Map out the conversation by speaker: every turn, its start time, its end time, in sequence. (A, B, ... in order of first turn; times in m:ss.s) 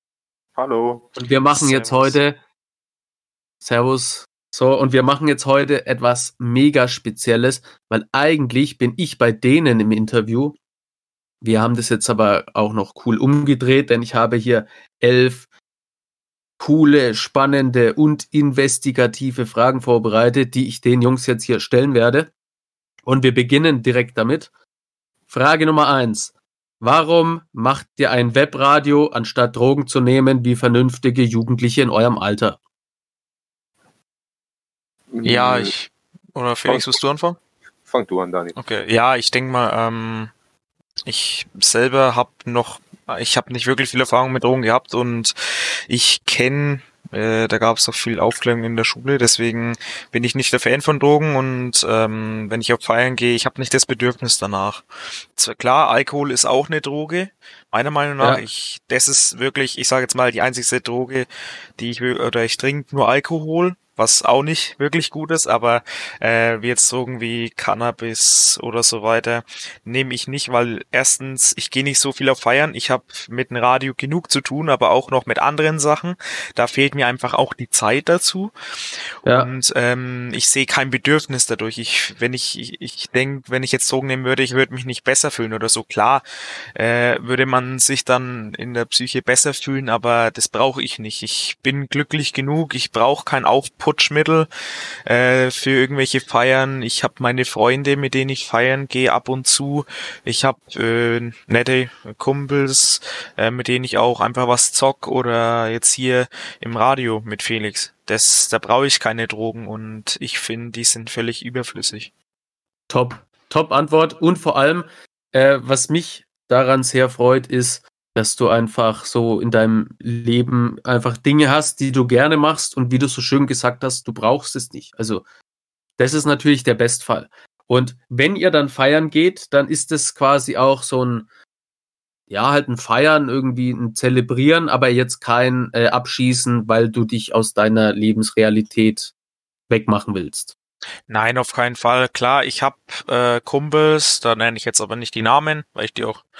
0:00.6-0:01.1 A
0:01.2-0:02.4 B
0:01.5-0:02.2 C
0:03.6-0:10.6 B
0:11.4-0:15.5 B
0:16.6-0:22.3 B
0:23.1-0:24.5 B
0:25.3-0:32.6 B
0:35.1-0:35.7 A
0:35.2-0:37.4 C
0:36.7-0:37.0 A
0:37.9-0:38.6 A
0:38.6-0:40.3 C
0:41.1-0:54.8 C
0:55.4-1:18.5 C
1:19.2-1:19.5 B
1:19.3-1:26.2 C
1:26.8-1:34.5 C
1:35.1-1:52.1 C
1:52.9-2:05.2 B
2:06.0-2:11.3 B
2:12.3-2:19.1 B
2:19.7-2:20.5 B
2:21.1-2:26.2 C